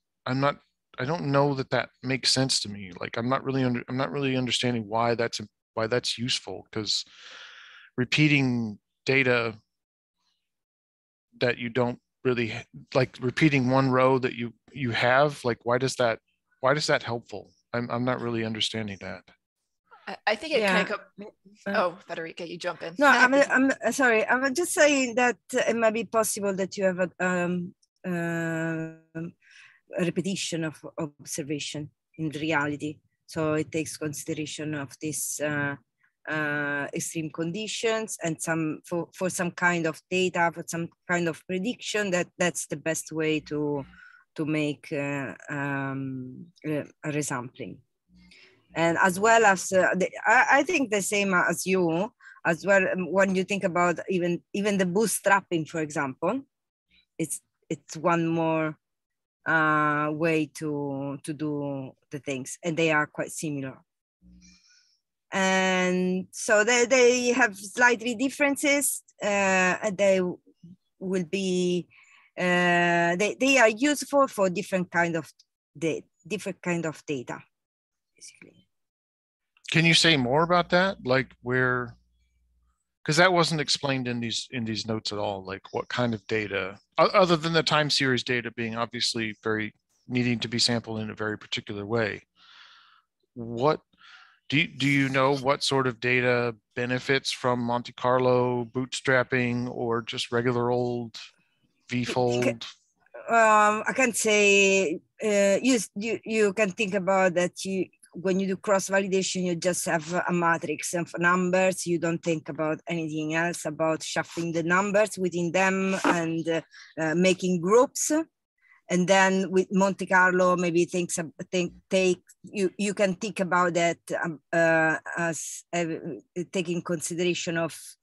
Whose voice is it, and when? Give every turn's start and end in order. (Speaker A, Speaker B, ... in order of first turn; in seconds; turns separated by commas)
Speaker A: 0.3-7.0, Speaker A: 8.0-9.6, Speaker A: 11.4-19.3, Speaker B: 20.1-21.1, Speaker C: 20.5-20.9, Speaker B: 21.7-23.5, Speaker C: 23.0-29.3, Speaker C: 29.9-47.8, Speaker C: 48.7-56.5, Speaker C: 57.2-58.8, Speaker C: 59.5-63.8, Speaker C: 65.3-70.4, Speaker C: 71.0-77.4, Speaker C: 78.2-78.6, Speaker A: 79.7-82.0, Speaker A: 83.0-92.2, Speaker A: 93.3-93.8, Speaker A: 94.5-101.2, Speaker A: 101.9-102.7, Speaker C: 102.1-102.5, Speaker C: 103.3-118.3, Speaker C: 118.9-127.8